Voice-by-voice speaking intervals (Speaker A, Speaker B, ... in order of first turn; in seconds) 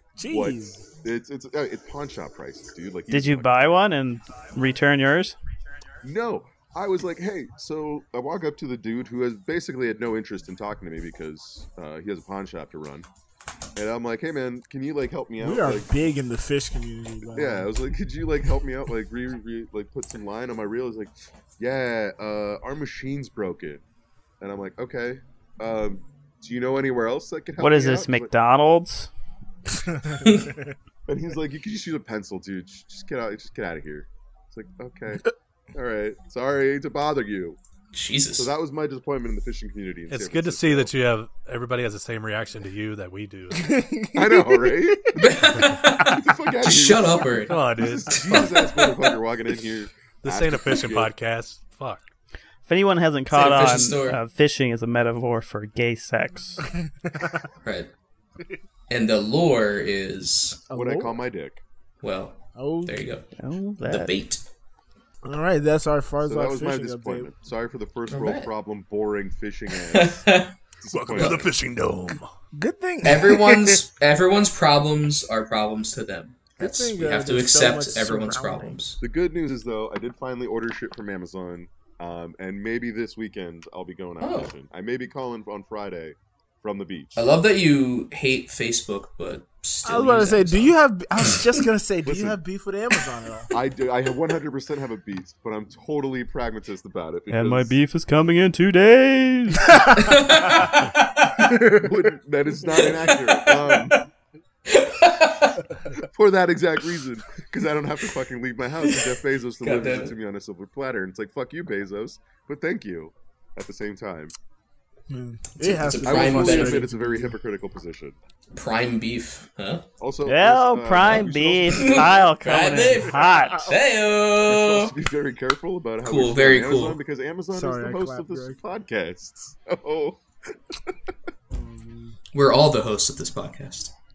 Speaker A: 0.2-0.8, 15.4-17.7, 29.8-30.4, 43.5-45.1, 57.0-57.4, 60.7-61.2, 62.5-63.0, 65.2-67.3, 72.5-73.8, 76.6-78.8, 89.8-93.5, 101.4-101.9, 115.1-117.3, 123.4-123.7, 127.5-128.6, 131.5-132.2
Speaker B: 0.3-3.8, 6.0-13.1, 13.8-15.9, 17.3-23.8, 24.4-28.3, 31.1-37.6, 38.4-40.9, 44.1-45.4, 46.0-51.1, 60.7-61.6, 66.2-70.2, 70.8-71.5, 79.0-87.2, 92.0-92.4, 93.5-97.7, 101.7-104.0, 106.0-114.3, 116.0-118.2, 120.0-122.3, 124.4-130.9
Speaker C: 3.1-5.4, 27.6-29.1, 52.7-56.6, 63.4-64.1, 97.3-100.1, 120.2-123.7
Speaker D: 30.2-30.5, 37.9-38.5, 45.1-48.7, 53.3-54.2, 57.6-57.9, 58.9-60.6, 62.0-63.3, 63.9-64.4, 68.1-68.5, 69.8-70.5, 71.1-71.5, 73.0-79.0, 84.2-84.5, 87.2-90.7, 100.0-101.4, 102.8-104.0, 104.7-105.6, 108.9-110.1, 115.6-116.9, 118.5-119.8, 121.7-124.9, 126.0-127.0, 132.3-133.9
Speaker E: 40.1-43.8, 47.5-48.4, 50.2-52.0, 70.9-72.3